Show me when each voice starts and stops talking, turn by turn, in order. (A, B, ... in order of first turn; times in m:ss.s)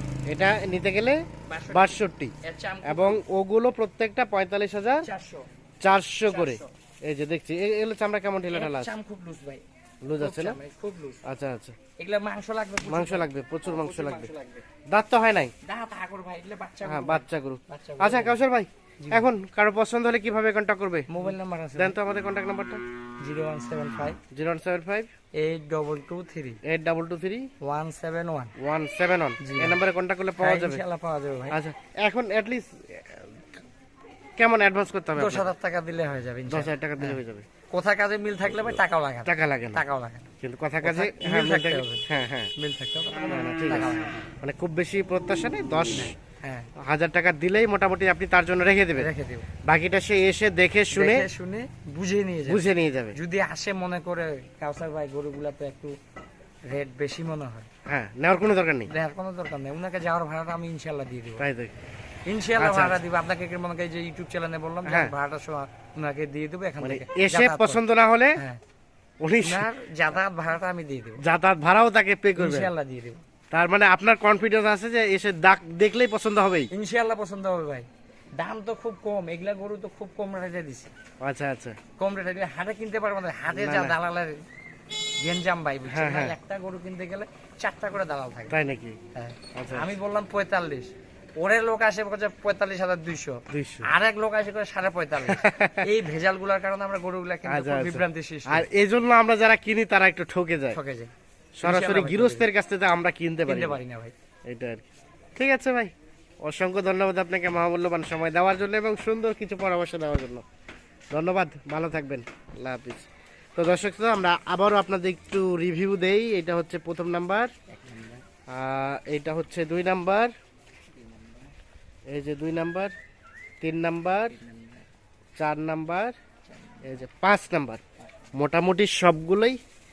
0:00.3-0:02.3 A
0:01.5-0:03.2 B
0:02.8-0:05.1 A
0:05.0-0:05.5 B
0:05.8-0:08.9 A
0:06.2-0:06.7 B
0:08.5-0:11.2 B
0:10.0-0:10.6 A
0:11.2-0:11.8 A
0:12.0-0:14.6 B
0:12.8-0:14.3 A
0:14.9-0:15.5 A
0:15.6-0:18.4 B
0:16.8-0:22.8 A
0:19.0-0:19.3 B
0:21.1-0:22.0 B
0:23.2-0:24.2 B
0:24.3-0:25.1 A
0:25.4-0:26.6 B
0:26.6-0:27.5 A
0:27.6-0:28.5 B
0:28.6-0:30.8 A
0:29.4-0:29.8 B
0:30.4-0:31.6 B
0:31.5-0:33.5 A
0:34.4-0:35.5 A
0:35.2-0:37.2 B
0:36.5-0:37.5 A
0:37.7-0:40.3 B
0:39.2-0:39.8 A
0:40.4-0:42.5 A
0:40.8-0:42.0 B
0:42.6-0:44.2 B
0:43.3-0:46.1 A
0:46.0-0:46.7 B
0:46.8-0:49.1 A
0:49.0-0:49.5 B
0:49.6-0:51.3 A
0:50.9-0:55.9 B
0:52.5-0:53.2 A
0:56.7-0:57.7 B
0:57.9-0:58.9 A
0:58.9-1:01.5 B
1:01.4-1:01.7 A
1:02.3-1:07.8 B
1:02.6-1:03.0 A
1:04.9-1:05.1 A
1:06.8-1:08.4 A
1:08.4-1:08.6 B
1:09.2-1:09.7 A
1:09.4-1:11.2 B
1:11.2-1:12.7 A
1:12.4-1:13.2 B
1:13.5-1:16.7 A
1:16.7-1:20.9 B
1:21.2-1:21.8 A
1:22.0-1:24.4 B
1:23.5-1:24.0 A
1:25.2-1:28.6 B
1:25.9-1:26.4 A
1:28.5-1:29.0 A
1:29.2-1:38.7 B
1:29.6-1:29.9 A
1:33.5-1:33.9 A
1:35.2-1:35.9 A
1:37.4-1:40.8 A
1:40.7-1:42.5 B
1:41.6-1:43.8 A
1:43.5-1:44.1 B
1:44.5-1:44.8 A
1:45.4-1:45.9 A
1:46.4-1:50.4 A
1:51.1-1:57.5 A
1:57.7-1:58.2 B
1:58.5-2:00.3 A
2:00.9-2:01.5 B
2:02.1-2:02.9 A
2:03.6-2:04.4 A
2:04.3-2:04.8 B
2:05.4-2:06.1 A
2:06.5-2:07.0 B
2:06.8-2:07.8 A
2:08.4-2:09.6 A